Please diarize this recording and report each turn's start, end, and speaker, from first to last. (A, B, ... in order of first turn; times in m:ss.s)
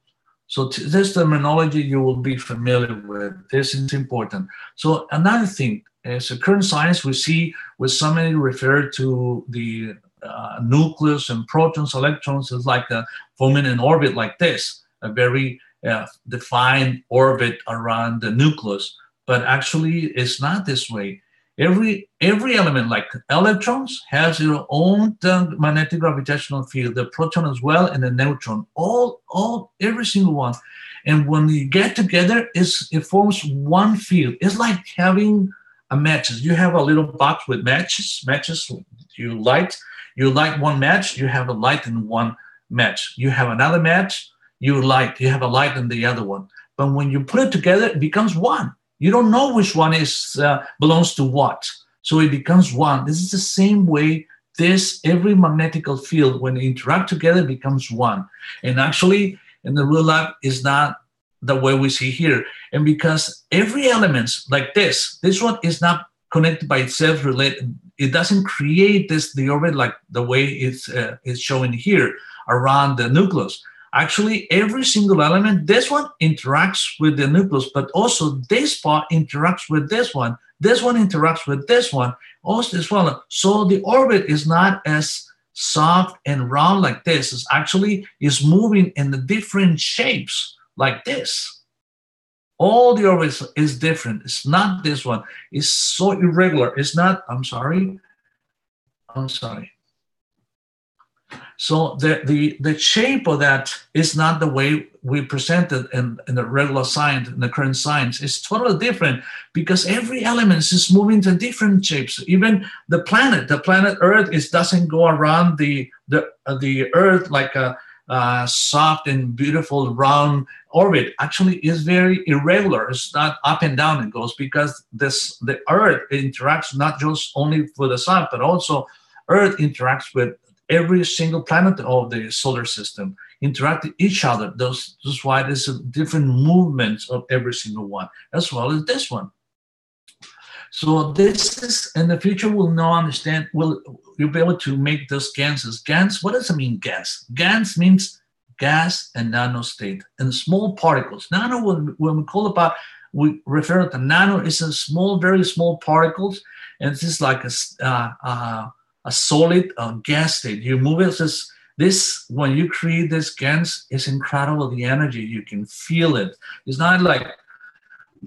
0:00.5-1:31.6 A
1:32.6-1:38.0 A
1:39.1-1:39.7 A
1:41.6-2:19.3 A
2:20.7-2:47.4 A